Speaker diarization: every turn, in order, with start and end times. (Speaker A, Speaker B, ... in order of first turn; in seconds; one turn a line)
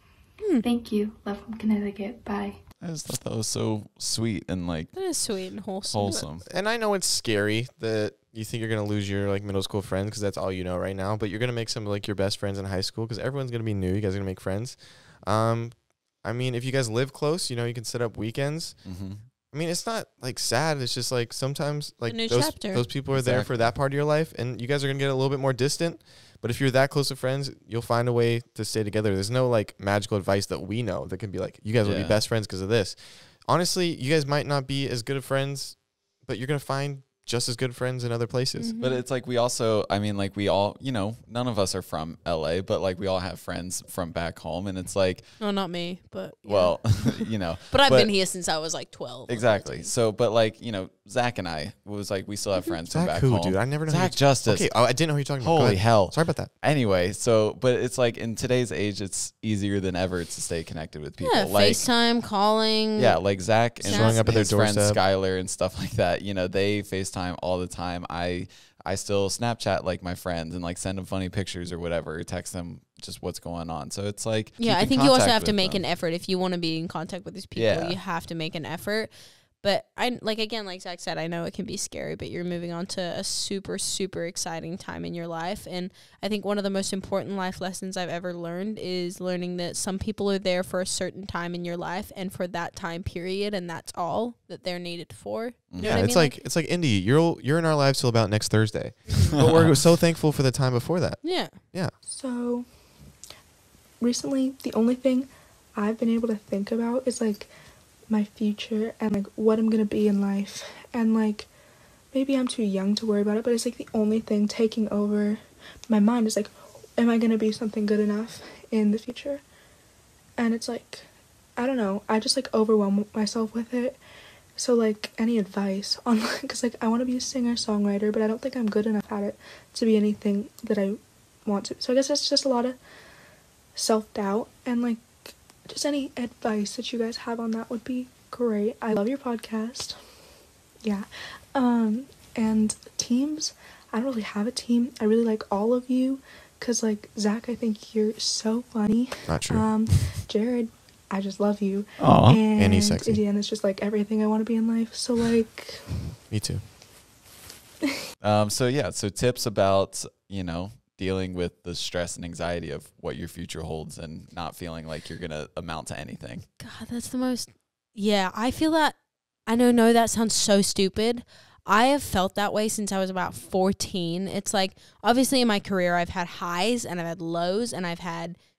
Speaker A: 0.4-0.7
Speaker B: 0.6-2.6
Speaker C: 2.8-4.9
Speaker A: 4.9-6.2
Speaker C: 5.9-6.4
Speaker D: 6.3-18.8
Speaker C: 18.8-19.2
Speaker D: 19.5-38.7
Speaker A: 22.1-22.9
Speaker C: 23.1-23.7
Speaker C: 31.8-32.2
Speaker A: 38.6-39.0
Speaker C: 38.8-45.2
Speaker A: 45.4-49.9
Speaker C: 46.5-48.1
Speaker C: 49.3-54.7
Speaker D: 52.9-56.5
Speaker C: 55.4-61.9
Speaker A: 61.2-63.1
Speaker C: 63.0-75.8
Speaker D: 63.8-65.0
Speaker A: 63.9-64.2
Speaker A: 74.6-79.1
Speaker C: 77.5-78.0
Speaker A: 79.6-96.3
Speaker D: 95.8-101.9
Speaker A: 99.1-99.4
Speaker C: 99.4-99.7
Speaker A: 101.2-101.6
Speaker E: 102.0-102.7
Speaker E: 104.0-107.5
Speaker E: 108.1-111.5
Speaker E: 112.1-119.4
Speaker E: 120.4-124.0
Speaker E: 124.5-132.8
Speaker E: 133.7-140.0
Speaker E: 140.8-155.8
Speaker D: 149.3-149.7
Speaker C: 152.0-152.4
Speaker D: 152.5-153.2
Speaker D: 156.3-156.6
Speaker C: 158.2-166.4
Speaker A: 166.6-168.9
Speaker A: 169.5-178.3